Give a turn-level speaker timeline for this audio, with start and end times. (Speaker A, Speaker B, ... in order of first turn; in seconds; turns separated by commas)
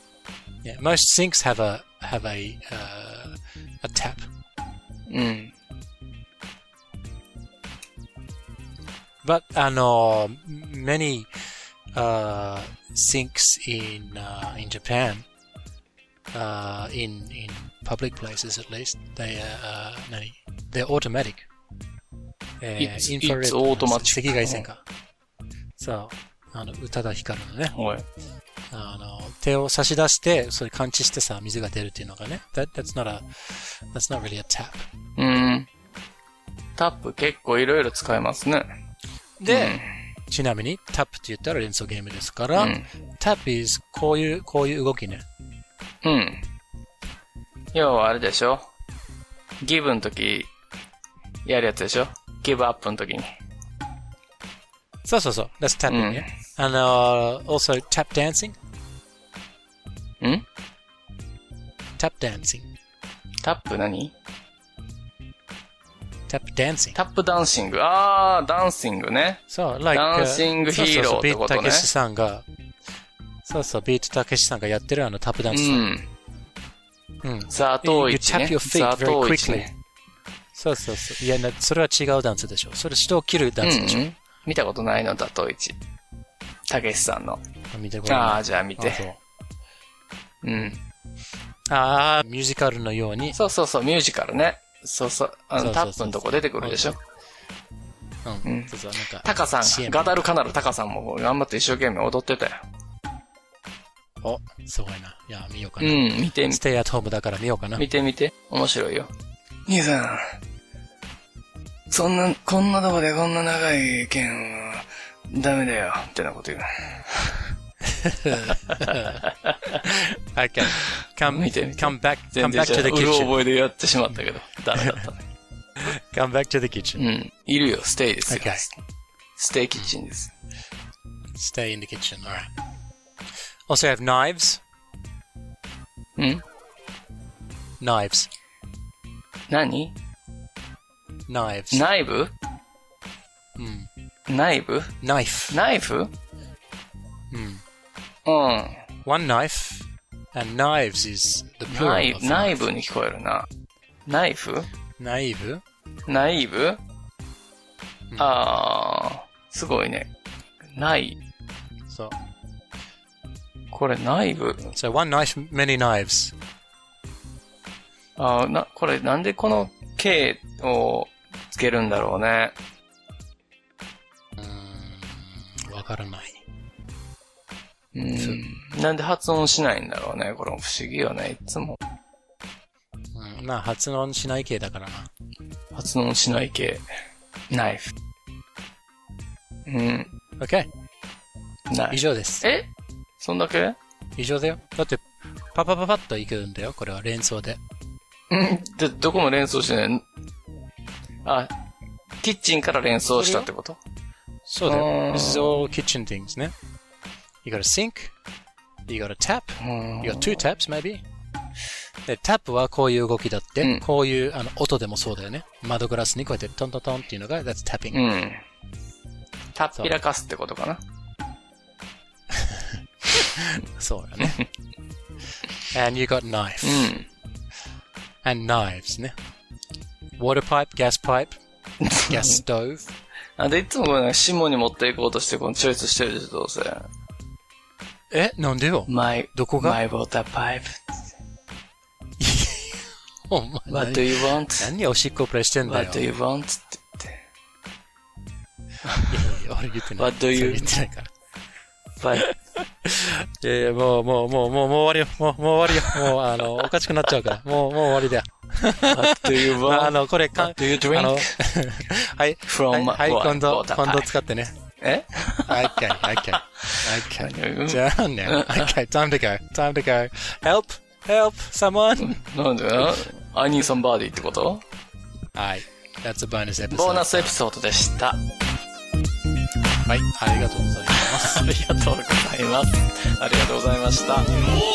Speaker A: 0.6-4.3, Speaker B: 5.1-5.5, Speaker A: 9.2-11.3, Speaker A: 11.9-15.2, Speaker A: 16.3-21.5, Speaker A: 22.6-24.8, Speaker B: 22.8-24.7, Speaker A: 25.8-27.8, Speaker B: 27.7-28.1, Speaker A: 28.7-34.9, Speaker B: 35.2-35.7, Speaker B: 36.8-38.6, Speaker A: 39.4-45.2, Speaker B: 39.5-40.0, Speaker B: 42.5-42.9, Speaker B: 46.0-46.4, Speaker B: 47.7-48.7, Speaker B: 49.6-50.5, Speaker B: 51.5-53.3, Speaker A: 55.0-58.6, Speaker B: 55.9-56.3, Speaker B: 60.2-60.5, Speaker A: 62.0-62.7, Speaker B: 63.4-64.1, Speaker A: 66.3-67.0, Speaker B: 66.9-71.9, Speaker A: 69.5-72.5, Speaker A: 73.5-75.9, Speaker B: 75.5-76.1, Speaker A: 77.2-79.7, Speaker B: 77.5-79.7, Speaker A: 80.6-84.0, Speaker B: 83.6-85.8, Speaker B: 86.7-87.4, Speaker A: 87.7-89.2, Speaker B: 88.1-89.1, Speaker B: 90.4-90.8, Speaker A: 91.7-93.4, Speaker B: 93.3-97.0, Speaker A: 95.6-97.0, Speaker A: 98.2-100.2, Speaker B: 98.5-102.6, Speaker A: 104.2-107.9, Speaker B: 105.8-106.6, Speaker B: 107.8-109.1, Speaker B: 109.7-110.3, Speaker B: 111.9-117.5, Speaker A: 117.9-119.2, Speaker B: 118.4-119.8, Speaker A: 119.8-123.4, Speaker B: 120.7-125.2, Speaker A: 124.8-125.1, Speaker A: 125.8-127.1, Speaker B: 127.0-128.7, Speaker A: 128.3-128.7, Speaker B: 129.4-130.3, Speaker A: 131.3-132.5, Speaker A: 133.7-134.6, Speaker B: 136.2-136.4, Speaker A: 137.8-138.3, Speaker B: 139.5-139.9, Speaker A: 141.3-141.9, Speaker B: 141.7-142.3, Speaker A: 143.6-143.9, Speaker B: 144.3-146.1, Speaker A: 145.0-145.6, Speaker A: 147.3-147.6, Speaker B: 148.3-148.9, Speaker A: 149.1-152.7, Speaker B: 151.7-153.5, Speaker B: 154.1-154.7, Speaker A: 155.0-155.6, Speaker B: 156.1-156.8, Speaker B: 158.2-160.1, Speaker B: 160.7-161.2, Speaker A: 161.9-162.2, Speaker B: 163.7-164.8, Speaker A: 164.8-166.3, Speaker B: 168.2-172.6, Speaker A: 174.4-176.4, Speaker B: 177.9-181.8, Speaker A: 178.2-178.4, Speaker A: 183.1-185.1, Speaker B: 185.7-186.9, Speaker B: 187.5-187.9, Speaker B: 189.7-190.1, Speaker A: 190.4-190.7, Speaker B: 191.7-193.8, Speaker A: 191.9-192.4, Speaker A: 194.2-197.6, Speaker B: 198.3-200.0, Speaker B: 201.2-201.5, Speaker B: 202.2-203.8, Speaker A: 203.1-203.5, Speaker A: 204.5-206.5, Speaker B: 204.7-205.6, Speaker A: 207.4-208.1, Speaker A: 208.9-211.0, Speaker B: 209.6-210.4, Speaker A: 212.1-218.0, Speaker B: 217.9-218.4, Speaker B: 219.5-220.8, Speaker A: 222.3-222.7, Speaker A: 223.4-224.4, Speaker A: 225.7-226.9, Speaker B: 226.6-227.1, Speaker A: 228.2-229.2, Speaker A: 230.2-231.4, Speaker B: 231.8-232.4, Speaker A: 232.1-232.9, Speaker B: 233.4-236.9, Speaker A: 238.1-239.8, Speaker B: 238.9-241.0, Speaker A: 242.2-246.1, Speaker B: 243.7-244.7, Speaker B: 245.6-247.2, Speaker A: 249.1-251.1, Speaker B: 250.0-250.7, Speaker B: 252.0-252.3, Speaker A: 252.8-264.5, Speaker B: 255.8-256.2, Speaker B: 258.9-261.4, Speaker B: 262.5-264.1, Speaker B: 264.8-268.7, Speaker A: 265.4-272.2, Speaker B: 272.0-274.6, Speaker A: 275.4-277.4, Speaker B: 276.7-278.2, Speaker A: 279.9-281.4, Speaker B: 280.9-284.3